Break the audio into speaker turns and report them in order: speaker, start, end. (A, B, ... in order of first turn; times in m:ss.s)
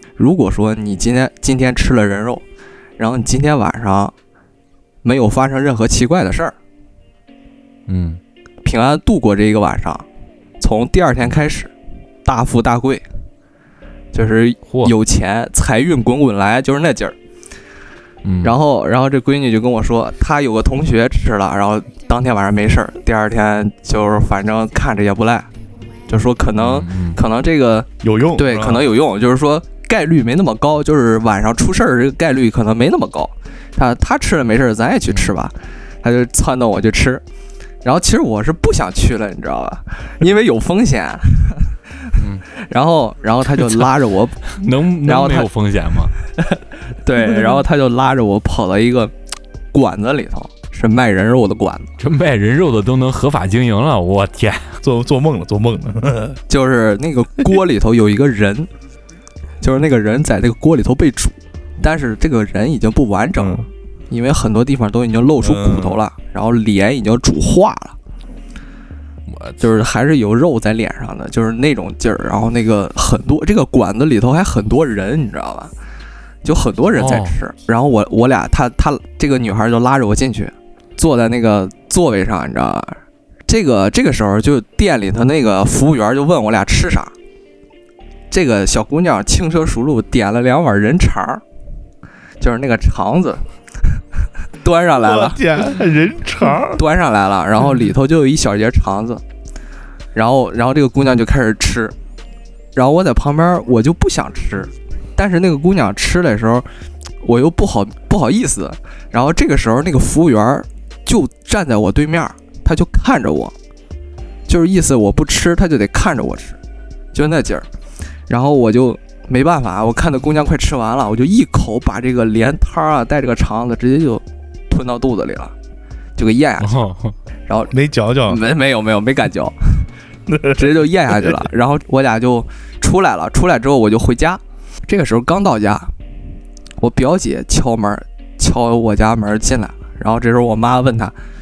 0:00.2-0:02.4 A
0:03.0-0:04.1 A
0:05.0-0:06.6 A
0:07.9-0:08.2 B
0:08.6-0:10.0 A
0:10.6-0:11.7 A
0:12.2-0:13.1 A
0:14.1-0:17.2 A
0:14.7-0:14.9 B
0:18.2-0:18.6 B
0:18.4-0:25.5 A
0:26.1-0:37.2 A
0:26.6-0:27.2 B
0:28.0-0:28.9 C
0:37.8-0:45.5 A
0:42.2-0:42.4 B
0:44.5-0:46.2 B
0:46.2-0:49.1 A
0:49.7-0:51.9 A
0:52.0-0:54.8 B
0:54.8-0:56.4 C
0:56.5-0:58.7 A
0:59.6-1:08.0 A
1:03.4-1:03.7 C
1:05.4-1:06.0 C
1:09.3-1:09.7 B
1:09.6-1:15.7 A
1:16.4-1:27.1 A
1:17.0-1:17.4 B
1:28.3-1:31.4 A
1:32.4-1:33.4 A
1:34.6-1:35.7 A
1:35.0-1:36.8 C
1:36.6-1:39.2 A
1:40.1-1:41.9 A
1:42.8-1:46.7 A
1:47.2-1:53.5 A
1:54.5-1:56.6 A
1:57.1-1:57.7 A
1:58.3-2:05.5 A
2:06.2-2:06.9 A
2:06.6-2:07.2 B
2:07.5-2:07.8 A
2:07.7-2:08.4 C
2:08.3-2:09.9 A
2:10.3-2:11.4 C
2:10.5-2:15.9 A
2:16.8-2:21.2 A